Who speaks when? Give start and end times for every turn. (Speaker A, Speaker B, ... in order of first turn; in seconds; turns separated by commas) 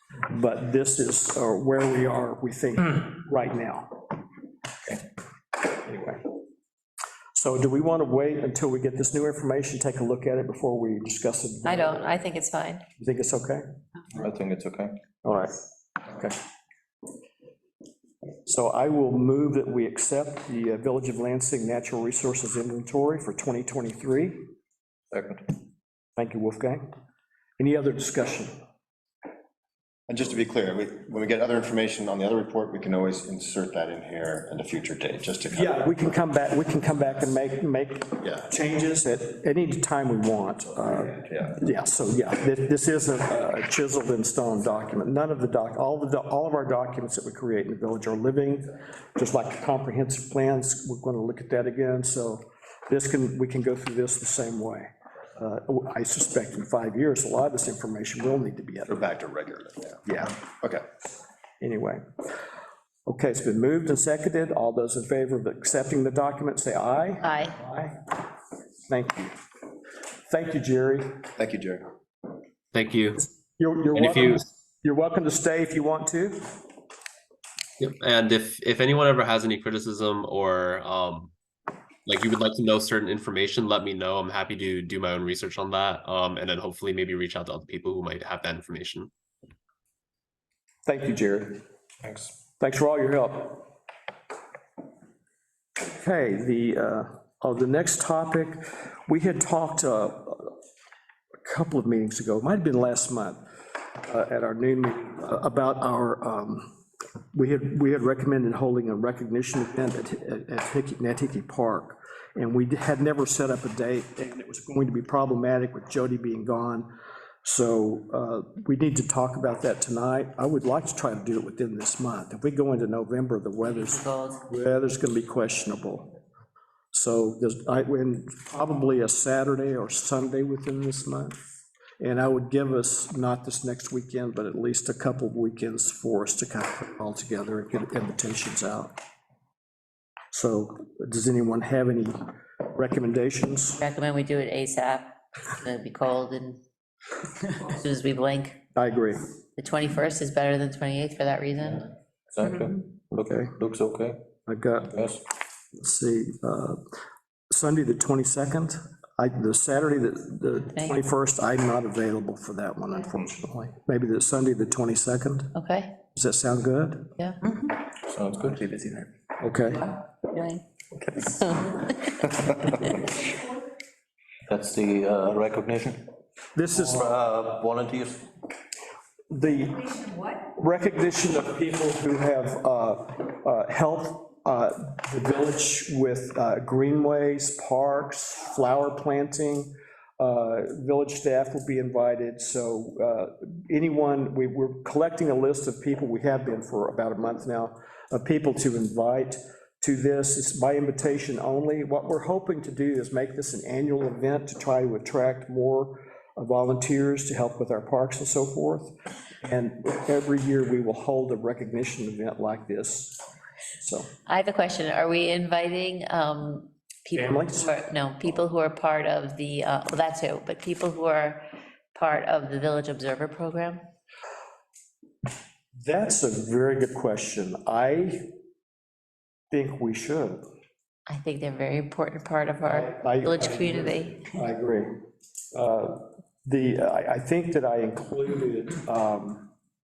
Speaker A: 0.3-4.0, Speaker A: 5.7-6.2, Speaker A: 7.3-12.1, Speaker B: 11.6-12.8, Speaker A: 13.0-13.6, Speaker C: 14.1-15.0, Speaker A: 15.2-16.4, Speaker A: 18.4-24.4, Speaker C: 25.1-25.6, Speaker A: 26.2-26.8, Speaker A: 27.6-28.5, Speaker D: 30.1-35.8, Speaker A: 35.5-59.0, Speaker D: 38.2-38.5, Speaker D: 40.9-41.6, Speaker D: 58.9-60.8, Speaker A: 60.0-60.4, Speaker A: 61.6-62.0, Speaker A: 63.0-68.1, Speaker B: 67.2-67.5, Speaker A: 68.9-69.4, Speaker A: 70.3-71.2, Speaker D: 71.4-71.9, Speaker E: 72.7-73.2, Speaker A: 73.6-76.5, Speaker E: 73.9-74.4, Speaker E: 77.8-81.3, Speaker E: 82.0-89.1, Speaker A: 90.8-91.6, Speaker C: 92.0-92.3, Speaker A: 92.6-93.7, Speaker A: 95.8-100.5, Speaker A: 101.4-103.4, Speaker A: 104.0-106.7, Speaker A: 107.3-116.9, Speaker A: 117.4-126.2, Speaker B: 123.6-124.4, Speaker A: 126.9-131.3, Speaker A: 132.0-138.9, Speaker A: 140.3-143.8, Speaker B: 143.8-146.6, Speaker B: 147.5-148.6, Speaker A: 148.8-149.2, Speaker B: 149.6-151.9, Speaker C: 152.3-154.2, Speaker A: 154.5-155.0, Speaker C: 154.9-155.2, Speaker A: 155.7-156.8, Speaker A: 157.5-165.5, Speaker B: 165.5-165.9, Speaker A: 166.1-167.1, Speaker C: 168.0-169.1, Speaker A: 169.4-169.9, Speaker B: 170.3-170.6, Speaker B: 171.1-172.4, Speaker C: 174.5-176.1, Speaker A: 176.5-177.1, Speaker C: 176.7-178.3, Speaker A: 179.3-213.2, Speaker A: 213.8-214.1, Speaker B: 214.2-221.4, Speaker A: 217.2-217.8, Speaker B: 221.9-223.8, Speaker A: 225.8-228.3, Speaker A: 229.5-230.4, Speaker B: 231.1-234.2, Speaker A: 232.6-234.9, Speaker A: 235.5-239.5